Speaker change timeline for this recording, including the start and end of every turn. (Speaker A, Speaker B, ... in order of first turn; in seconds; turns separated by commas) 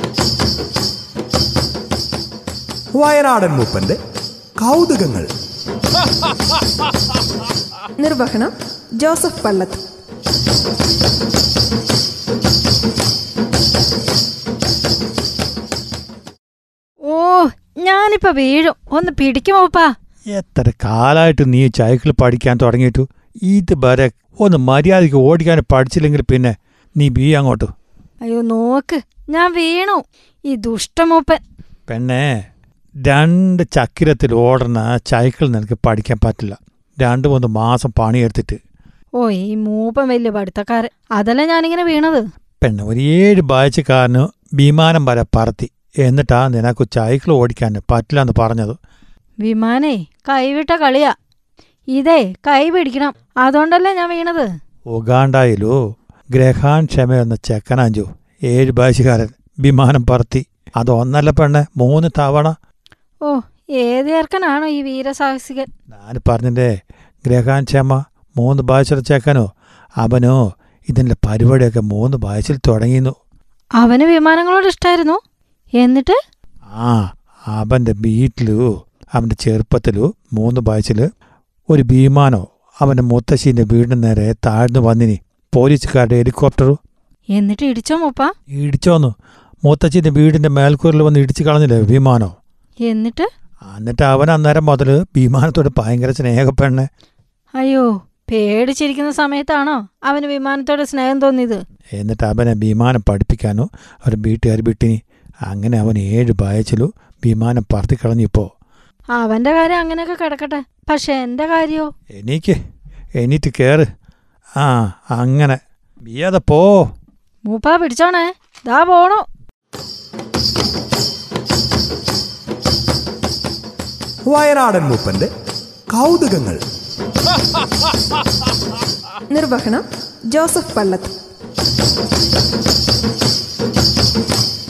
Speaker A: 3.0-4.0, Speaker A: 4.6-5.3, Speaker B: 8.0-9.8, Speaker C: 17.1-19.9, Speaker D: 20.3-27.7, Speaker C: 28.3-31.4, Speaker D: 31.9-32.3, Speaker D: 33.1-38.6, Speaker C: 39.2-42.2, Speaker D: 42.6-48.8, Speaker C: 49.4-51.1, Speaker C: 51.9-54.5, Speaker D: 54.9-55.8, Speaker D: 56.3-62.5, Speaker C: 63.2-65.7, Speaker D: 65.9-66.7, Speaker D: 67.2-69.5, Speaker D: 70.0-73.1, Speaker C: 73.8-75.2, Speaker C: 75.8-76.2, Speaker D: 76.7-81.1, Speaker D: 81.7-86.8, Speaker C: 87.3-88.3, Speaker D: 88.5-89.1, Speaker D: 89.6-92.3, Speaker C: 92.8-93.3, Speaker D: 93.7-96.9, Speaker C: 97.6-101.6, Speaker D: 102.0-108.5, Speaker C: 109.2-111.9, Speaker D: 112.1-112.6, Speaker D: 113.2-113.8, Speaker D: 114.6-116.7, Speaker C: 117.5-119.2, Speaker A: 124.3-125.3, Speaker A: 125.9-126.6, Speaker B: 129.3-131.1